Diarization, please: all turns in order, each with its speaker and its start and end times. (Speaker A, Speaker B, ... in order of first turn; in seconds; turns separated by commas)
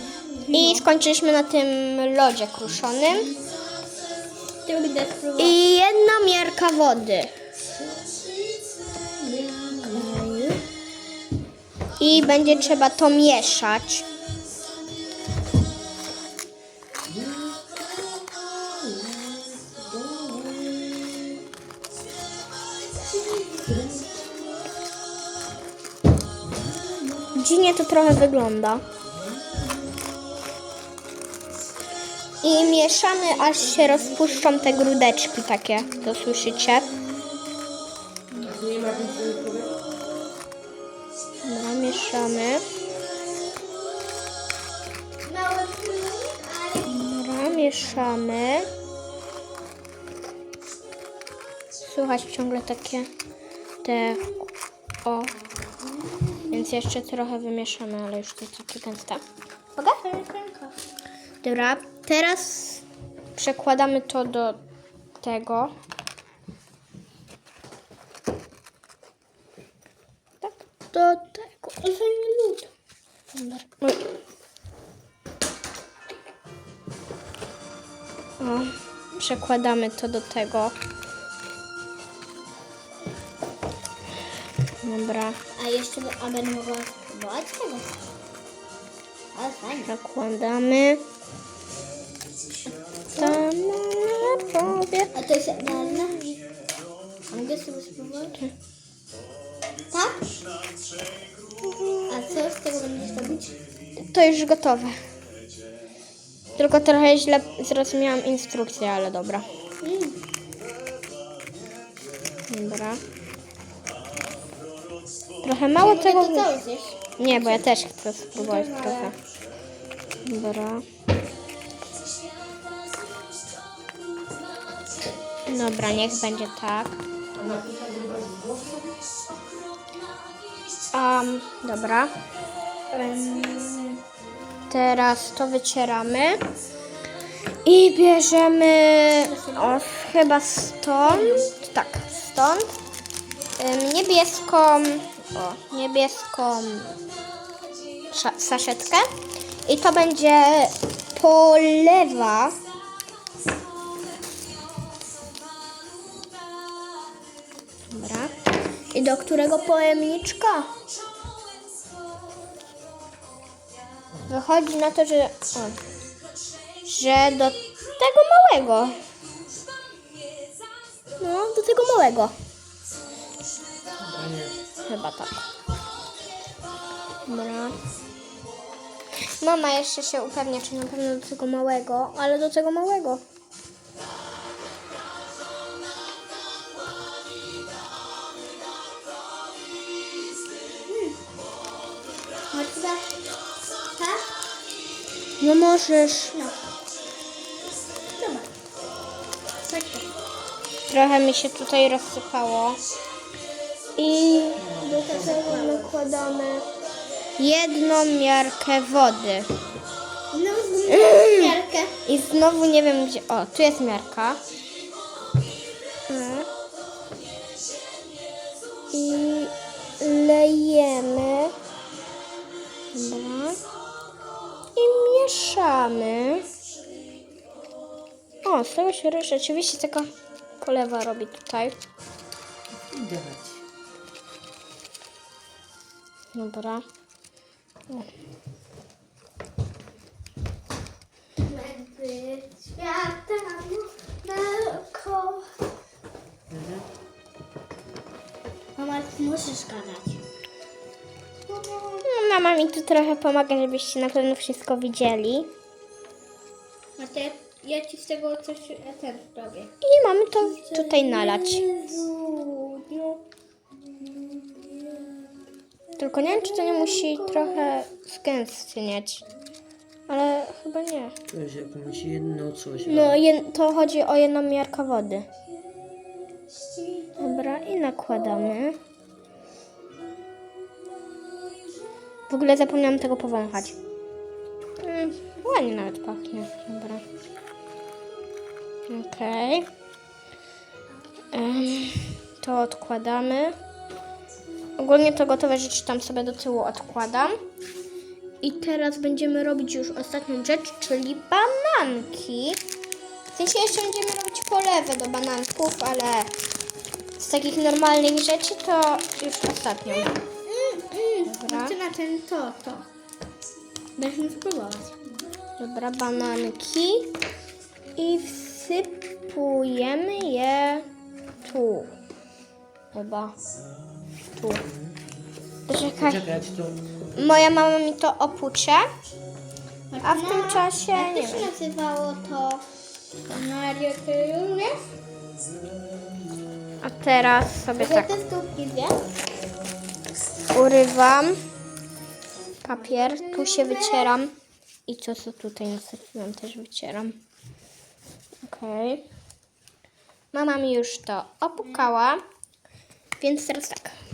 Speaker A: 0.5-0.8, Speaker B: 0.5-3.3, Speaker A: 4.5-5.6, Speaker B: 5.4-7.3, Speaker C: 7.8-10.2, Speaker B: 9.9-10.6, Speaker B: 12.0-14.1, Speaker C: 17.1-21.4, Speaker A: 23.3-23.7, Speaker C: 23.4-24.2, Speaker B: 27.3-28.8, Speaker B: 32.4-37.0, Speaker A: 33.5-34.5, Speaker C: 38.4-39.8, Speaker A: 38.7-39.8, Speaker B: 41.4-42.7, Speaker A: 42.0-43.7, Speaker A: 45.2-48.1, Speaker B: 46.9-48.7, Speaker B: 51.8-53.1, Speaker B: 53.8-54.3, Speaker B: 55.0-55.3, Speaker A: 55.7-56.7, Speaker B: 56.5-59.2, Speaker A: 59.8-60.7, Speaker B: 61.4-62.8, Speaker B: 63.3-64.6, Speaker B: 65.2-65.7, Speaker A: 70.9-72.7, Speaker B: 73.3-74.0, Speaker B: 78.4-80.7, Speaker B: 84.8-85.4, Speaker A: 85.6-87.9, Speaker A: 89.3-89.9, Speaker B: 89.8-91.0, Speaker B: 93.1-95.2, Speaker A: 95.1-96.4, Speaker A: 97.3-98.4, Speaker A: 99.9-100.2, Speaker A: 102.1-103.6, Speaker B: 104.0-105.0, Speaker B: 106.5-109.5, Speaker A: 109.8-110.2, Speaker B: 112.5-113.0, Speaker B: 115.4-116.5, Speaker A: 115.8-117.7, Speaker B: 117.2-119.1, Speaker A: 118.3-119.1, Speaker B: 120.2-120.8, Speaker B: 125.5-126.9, Speaker C: 127.3-128.9, Speaker B: 130.9-132.1, Speaker A: 132.9-134.0, Speaker B: 134.7-136.4, Speaker B: 137.6-142.7, Speaker A: 139.2-139.8, Speaker A: 141.1-141.4, Speaker B: 143.6-147.0, Speaker B: 148.1-149.1, Speaker B: 149.6-152.6, Speaker B: 157.9-158.3, Speaker B: 158.9-160.7, Speaker B: 164.3-165.8, Speaker B: 166.8-169.0, Speaker B: 171.2-172.3, Speaker C: 174.0-174.6, Speaker B: 174.9-175.4, Speaker B: 177.2-177.8, Speaker B: 179.4-183.2, Speaker A: 190.8-191.2, Speaker A: 192.5-193.2, Speaker A: 193.9-194.3, Speaker B: 195.4-196.4, Speaker A: 198.2-198.5, Speaker A: 199.6-200.1, Speaker B: 200.9-202.8, Speaker B: 204.0-206.6, Speaker C: 204.6-205.7, Speaker A: 204.8-205.9, Speaker B: 207.4-209.5, Speaker A: 210.3-211.9, Speaker B: 210.9-214.4, Speaker B: 216.1-216.5, Speaker B: 218.9-221.5, Speaker B: 222.9-223.6, Speaker B: 224.8-226.5, Speaker B: 228.4-230.1, Speaker B: 230.6-231.8, Speaker C: 232.9-233.6, Speaker B: 236.3-236.8, Speaker A: 241.4-245.5, Speaker C: 246.5-246.8, Speaker A: 248.8-250.2, Speaker A: 251.5-252.1, Speaker B: 252.0-255.5, Speaker A: 257.0-259.7, Speaker B: 259.8-261.6, Speaker A: 260.4-263.2, Speaker A: 264.0-265.3, Speaker B: 266.0-269.2, Speaker A: 266.1-267.8, Speaker B: 270.1-271.1, Speaker C: 271.3-273.2, Speaker B: 272.8-275.3, Speaker A: 276.1-277.7, Speaker B: 277.2-278.8, Speaker B: 282.3-283.8, Speaker B: 284.8-287.0, Speaker B: 288.9-289.7, Speaker B: 291.3-293.6, Speaker B: 294.8-297.4, Speaker B: 298.4-302.6, Speaker B: 303.3-306.3, Speaker B: 307.2-310.2, Speaker A: 310.4-312.9, Speaker B: 311.2-311.8, Speaker A: 314.0-314.9, Speaker B: 315.6-317.1, Speaker B: 318.0-320.8, Speaker B: 321.4-321.9, Speaker B: 322.9-323.3, Speaker B: 324.4-324.6, Speaker C: 324.6-324.9, Speaker B: 325.7-326.3, Speaker C: 326.0-327.0, Speaker B: 327.1-328.9, Speaker A: 329.9-332.7, Speaker B: 330.0-331.5, Speaker A: 333.2-334.8, Speaker B: 336.8-338.1, Speaker A: 337.8-339.0, Speaker B: 340.5-341.3, Speaker A: 342.6-344.2, Speaker B: 342.6-344.3, Speaker B: 344.9-347.2, Speaker B: 348.4-349.0, Speaker B: 350.3-352.2, Speaker B: 353.2-354.0